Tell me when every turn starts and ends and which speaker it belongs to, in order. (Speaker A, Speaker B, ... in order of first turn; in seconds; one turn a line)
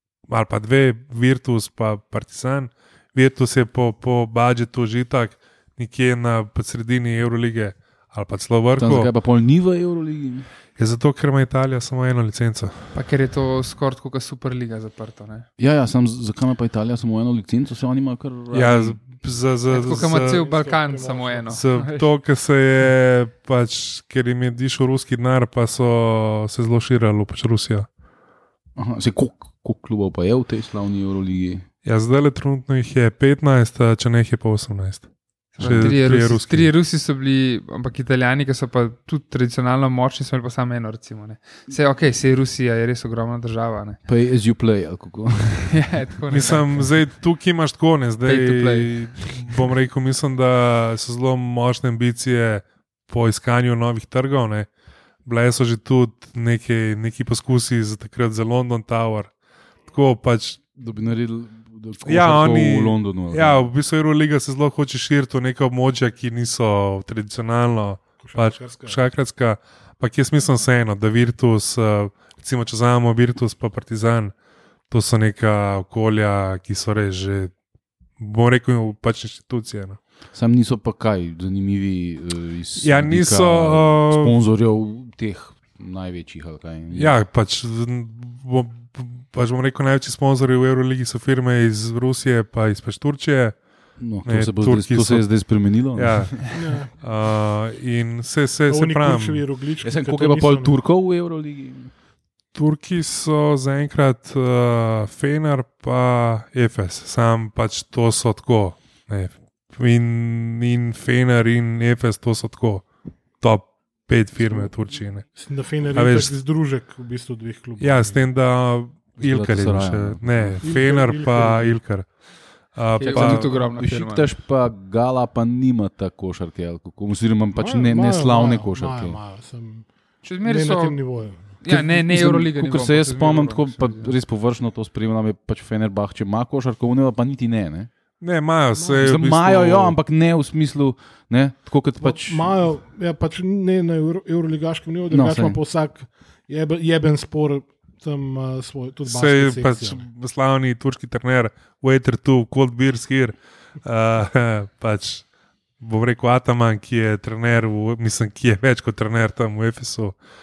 Speaker A: 0.3-9.1
Speaker B: 8.8-10.5
Speaker A: 10.8-12.9
Speaker C: 12.9-15.5
Speaker B: 15.6-19.0
Speaker A: 18.5-20.4
Speaker C: 19.7-22.1
Speaker D: 19.7-21.5
Speaker A: 21.5-27.9
Speaker B: 28.8-31.6
Speaker A: 31.8-36.7
Speaker C: 35.5-44.0
Speaker B: 35.6-35.9
Speaker B: 44.0-45.8
Speaker C: 45.7-46.9
Speaker A: 46.3-54.7
Speaker C: 48.2-49.1
Speaker A: 55.2-59.3
Speaker A: 59.9-60.6
Speaker B: 60.8-63.7
Speaker A: 62.0-74.3
Speaker D: 68.2-69.0
Speaker A: 74.9-77.5
Speaker A: 78.2-80.0
Speaker B: 80.3-87.1
Speaker A: 82.8-84.3
Speaker A: 86.9-93.6
Speaker B: 94.0-96.4
Speaker A: 94.2-99.4
Speaker D: 96.5-96.9
Speaker D: 98.7-100.8
Speaker B: 99.8-101.9
Speaker A: 102.5-112.8
Speaker A: 113.4-115.4
Speaker D: 115.3-118.2
Speaker A: 115.9-116.3
Speaker A: 117.8-123.6
Speaker B: 119.2-120.6
Speaker D: 120.6-121.8
Speaker C: 123.0-124.3
Speaker B: 123.1-129.2
Speaker D: 127.5-131.6
Speaker C: 130.2-134.1
Speaker B: 131.6-137.9
Speaker A: 138.2-139.9
Speaker D: 138.8-139.2
Speaker B: 139.0-142.5
Speaker D: 142.0-150.0
Speaker B: 145.1-145.6
Speaker A: 149.1-155.2
Speaker A: 155.8-160.2